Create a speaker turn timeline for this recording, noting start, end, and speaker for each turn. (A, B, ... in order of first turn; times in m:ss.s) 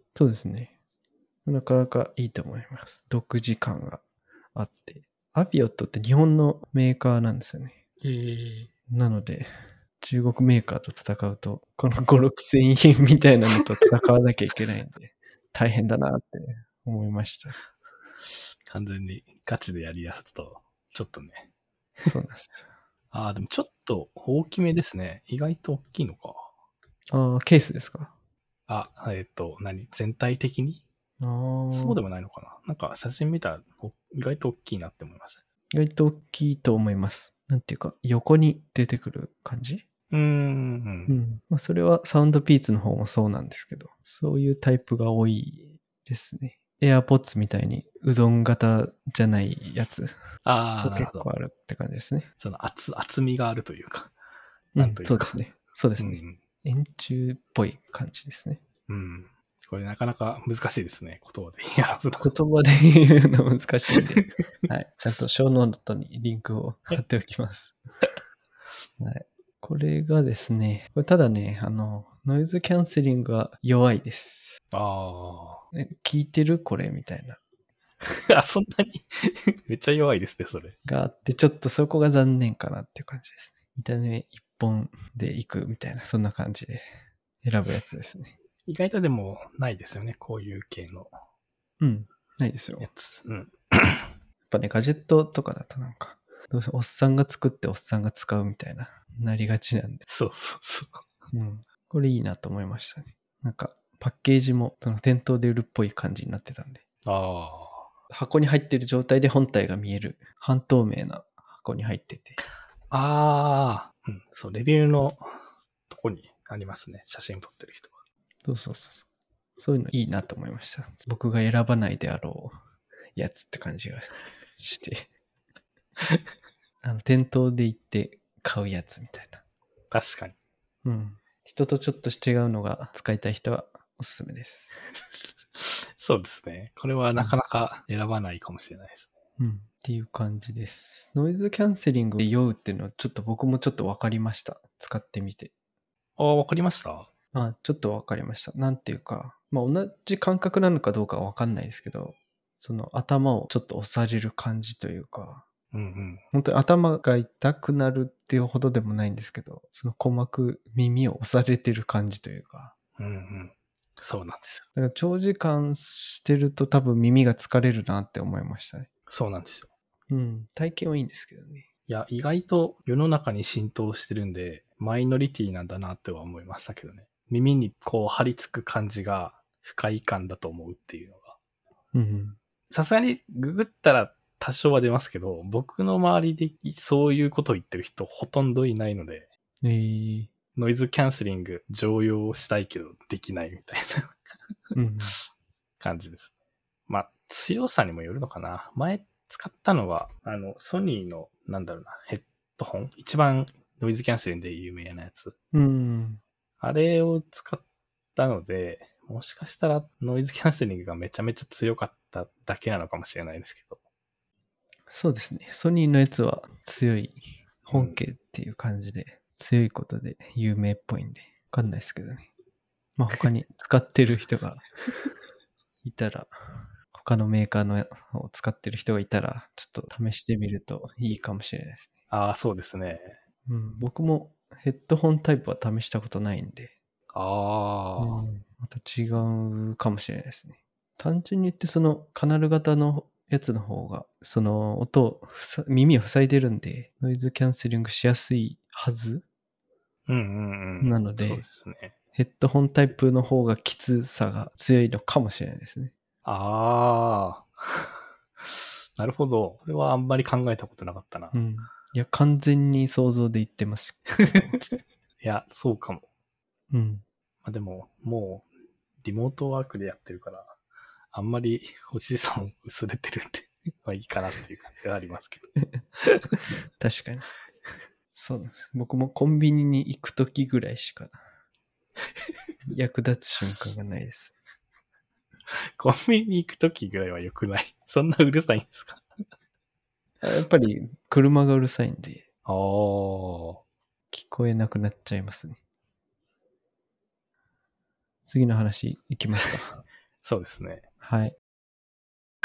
0:00.2-0:00.7 A
0:01.5-0:04.0 A
0:04.5-0:07.8 A
0:08.0-0:08.7 B
0:08.9-0:09.5 A
0:10.0-0:17.6 A
0:18.7-0:21.5 B
0:22.1-0:22.7 A
0:23.1-0:26.5 B
0:27.1-0:28.1 A
0:28.7-0:30.8 B
0:31.2-0:32.0 A
0:31.7-0:35.4 B
0:35.7-0:39.8 A
0:40.1-0:41.2 B
0:41.1-0:50.1 A
0:50.4-0:51.3 B
0:50.8-0:52.3 A
0:52.4-0:54.1 B
0:54.8-0:58.6 A
0:54.8-0:55.4 B
0:56.0-0:56.4 B
0:58.9-1:02.3 B
1:02.2-1:07.8 A
1:09.0-1:14.6 A
1:14.7-1:15.6 B
1:15.7-1:17.4 A
1:18.1-1:20.8 B
1:20.8-1:26.9 A
1:27.4-1:28.4 A
1:28.7-1:31.1 B
1:31.8-1:32.9 A
1:32.8-1:34.1 B
1:34.5-1:40.0 A
1:40.1-1:41.1 B
1:41.3-1:46.8 A
1:47.0-1:47.9 B
1:48.1-1:52.4 A
1:52.9-1:55.2 B
1:55.9-1:58.0 B
1:58.4-1:59.1 A
1:59.6-2:02.5 A
2:03.2-2:05.1 A
2:06.8-2:09.4 A
2:09.9-2:10.4 B
2:10.8-2:14.8 A
2:15.6-2:19.1 B
2:19.4-2:25.5 A
2:26.2-2:27.1 B
2:27.3-2:35.5 A
2:35.7-2:36.2 B
2:36.3-2:42.7 A
2:43.0-2:44.7 B
2:44.8-2:48.9 A
2:49.1-2:49.7 B
2:50.1-2:51.7 A
2:51.9-3:01.4 B
3:01.9-3:02.4 A
3:02.7-3:09.3 B
3:09.6-3:10.3 A
3:10.6-3:13.9 B
3:14.7-3:15.2 A
3:15.8-3:16.3 B
3:16.9-3:25.4 B
3:25.5-3:26.2 A
3:26.6-3:27.6 B
3:28.2-3:33.8 B
3:34.9-3:42.3 A
3:37.7-3:38.0 B
3:43.0-3:44.7 A
3:45.8-3:46.3 A
3:46.9-3:51.9 A
3:52.1-3:53.2 B
3:53.5-3:56.8 A
3:57.1-3:58.3 B
3:58.0-4:09.3 A
4:10.1-4:11.9 B
4:10.8-4:11.5 A
4:12.2-4:15.9 A
4:16.2-4:17.9 B
4:18.4-4:21.4 B
4:21.3-4:24.6 A
4:25.2-4:26.1 B
4:26.7-4:27.0 A
4:27.4-4:28.5 B
4:29.0-4:30.6 B
4:31.1-4:36.3 B
4:36.8-4:37.3 A
4:38.2-4:41.2 A
4:42.7-4:44.4 A
4:45.8-4:49.0 B
4:50.2-4:52.2 A
4:52.5-4:53.6 B
4:54.1-4:55.6 A
4:58.3-4:59.7 A
5:00.2-5:00.9 B
5:01.0-5:01.4 A